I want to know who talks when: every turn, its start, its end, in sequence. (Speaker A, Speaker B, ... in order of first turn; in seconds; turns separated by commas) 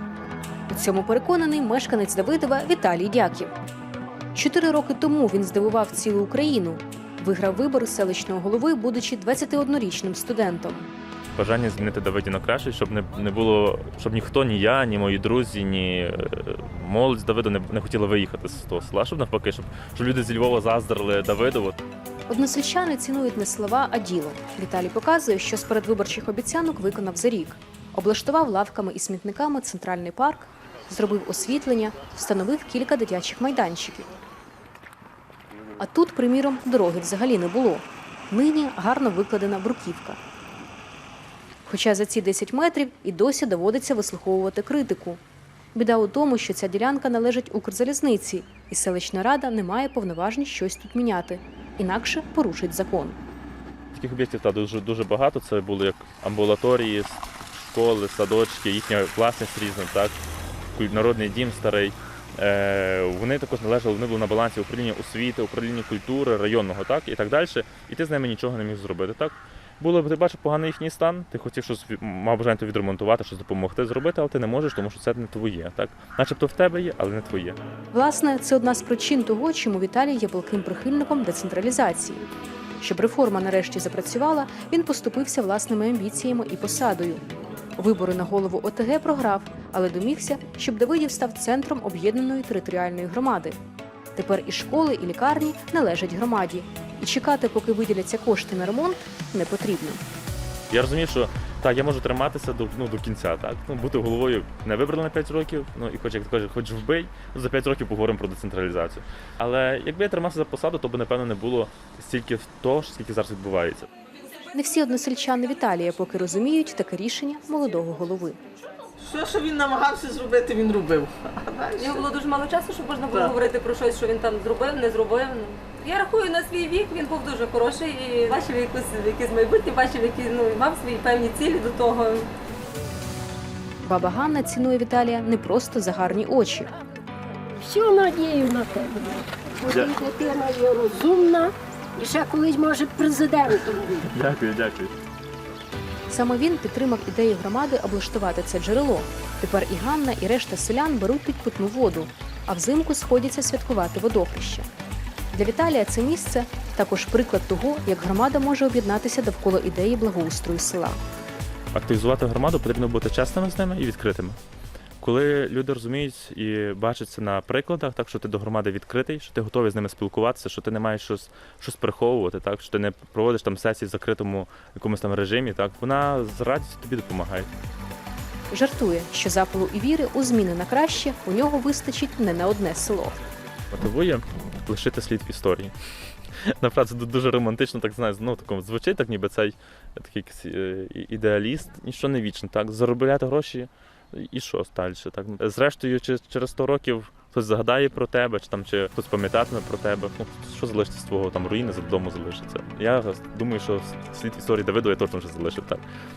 Speaker A: 0.7-3.5, Speaker A: 4.3-10.9, Speaker B: 11.4-21.8, Speaker A: 22.3-34.1, Speaker A: 35.8-40.2, Speaker A: 41.7-45.2, Speaker A: 45.8-53.2, Speaker B: 53.9-60.2, Speaker B: 60.8-77.6, Speaker A: 77.9-82.3, Speaker A: 82.8-87.2, Speaker A: 87.8-93.6, Speaker A: 94.2-100.0, Speaker B: 100.7-113.9, Speaker A: 114.5-118.4, Speaker C: 119.0-122.0, Speaker D: 121.7-132.3, Speaker A: 133.8-136.7, Speaker E: 137.6-144.0, Speaker B: 144.0-144.9, Speaker A: 146.1-154.7, Speaker A: 155.3-161.0, Speaker B: 161.7-164.4, Speaker B: 165.0-177.5, Speaker A: 178.5-183.2, Speaker B: 183.7-185.7, Speaker B: 186.4-205.8